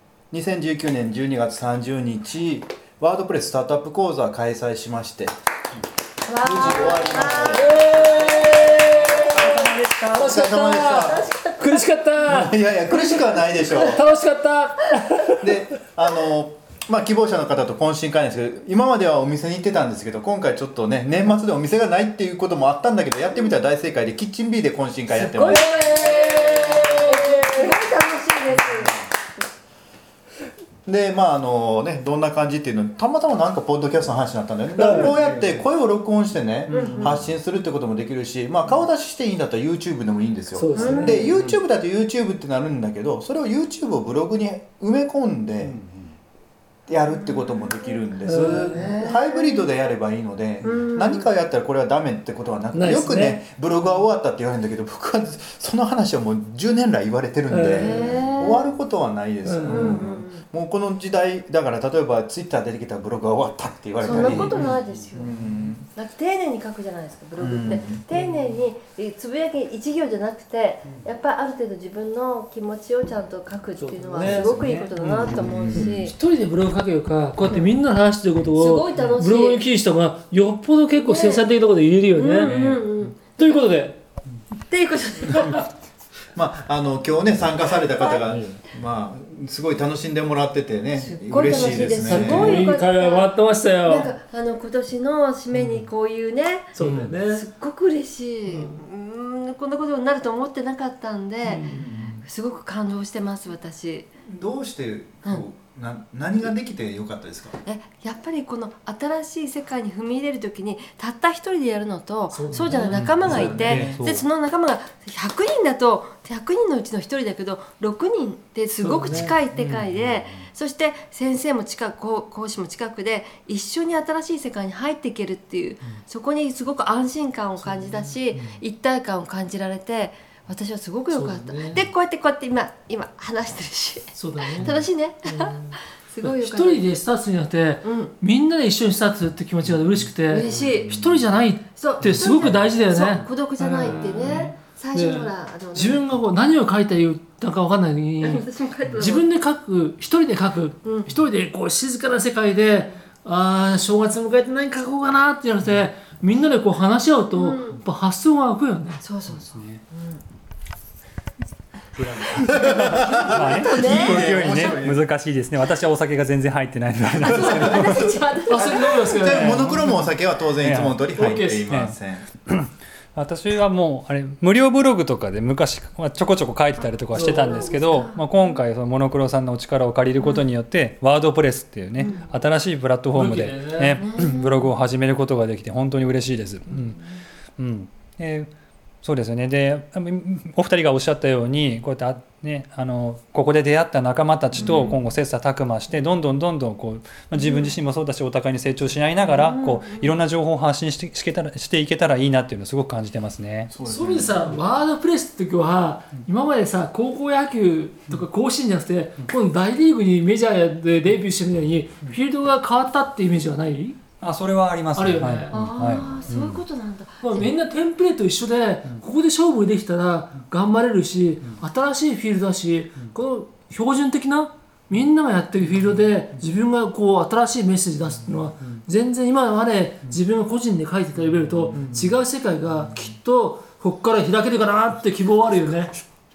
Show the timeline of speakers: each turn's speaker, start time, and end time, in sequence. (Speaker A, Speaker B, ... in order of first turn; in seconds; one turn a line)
Speaker A: 0.3-5.3
Speaker B: 6.2-8.6
Speaker A: 6.4-8.2
Speaker C: 7.3-13.1
Speaker A: 10.1-11.3
Speaker B: 10.9-11.8
Speaker A: 12.2-14.0
Speaker C: 13.7-15.6
Speaker A: 15.4-26.6
Speaker B: 25.1-29.0
Speaker C: 25.4-27.7
Speaker A: 30.9-45.8
Speaker C: 34.7-35.2
Speaker D: 35.0-35.6
Speaker D: 36.7-37.3
Speaker B: 36.7-37.2
Speaker C: 40.5-41.2
Speaker B: 40.7-41.3
Speaker D: 40.8-41.6
Speaker D: 45.6-46.1
Speaker A: 46.9-65.9
Speaker B: 47.2-49.7
Speaker C: 48.2-48.9
Speaker B: 50.6-51.3
Speaker C: 52.7-53.4
Speaker C: 57.5-58.1
Speaker B: 57.7-58.7
Speaker C: 59.4-60.0
Speaker B: 59.7-60.4
Speaker B: 64.0-65.3
Speaker D: 64.1-65.1
Speaker B: 65.9-76.1
Speaker A: 67.4-68.0
Speaker C: 68.1-68.5
Speaker C: 73.8-74.9
Speaker D: 74.2-75.9
Speaker A: 75.3-75.9
Speaker C: 75.7-82.6
Speaker B: 78.5-79.6
Speaker B: 81.0-81.4
Speaker B: 82.1-83.6
Speaker D: 82.4-83.0
Speaker C: 83.2-84.0
Speaker B: 84.7-85.7
Speaker A: 85.3-85.5
Speaker A: 86.3-92.7
Speaker B: 87.7-88.2
Speaker D: 88.2-88.6
Speaker B: 90.9-93.3
Speaker C: 91.7-94.1
Speaker B: 93.8-96.7
Speaker D: 95.5-95.8
Speaker D: 96.7-97.1
Speaker C: 96.8-97.5
Speaker B: 97.2-101.7
Speaker C: 98.5-98.8
Speaker C: 101.4-101.9
Speaker D: 101.8-102.2
Speaker B: 102.2-104.1
Speaker A: 104.2-107.6
Speaker B: 107.6-136.9
Speaker C: 112.3-113.4
Speaker D: 112.7-114.2
Speaker A: 113.2-114.0
Speaker C: 118.8-119.3
Speaker D: 119.0-120.4
Speaker C: 127.6-128.2
Speaker C: 131.1-131.8
Speaker C: 134.1-134.7
Speaker D: 134.6-134.8
Speaker C: 135.2-148.4
Speaker B: 137.8-138.1
Speaker D: 139.6-141.2
Speaker B: 140.3-141.0
Speaker B: 141.8-146.0
Speaker D: 142.2-142.6
Speaker D: 143.9-144.2
Speaker B: 148.2-149.2
Speaker C: 149.0-159.0
Speaker B: 150.8-151.1
Speaker B: 157.3-157.8
Speaker B: 159.0-160.2
Speaker D: 159.3-159.8
Speaker D: 162.0-168.1
Speaker A: 162.3-165.0
Speaker B: 163.3-164.7
Speaker B: 167.2-169.3
Speaker A: 167.2-172.3
Speaker C: 168.5-170.1
Speaker D: 170.6-171.1
Speaker C: 171.2-171.6
Speaker D: 171.7-187.0
Speaker B: 176.8-178.6
Speaker C: 177.1-177.8
Speaker B: 182.0-182.2
Speaker C: 183.1-184.2
Speaker B: 184.0-184.6
Speaker D: 187.6-188.5
Speaker D: 189.0-203.7
Speaker B: 194.6-194.9
Speaker A: 194.6-194.9
Speaker B: 197.4-197.7
Speaker B: 199.3-200.2
Speaker A: 203.7-204.5
Speaker C: 203.8-214.0
Speaker D: 214.2-216.6
Speaker C: 214.9-216.0
Speaker B: 215.5-217.5
Speaker C: 217.2-235.9
Speaker D: 231.6-232.2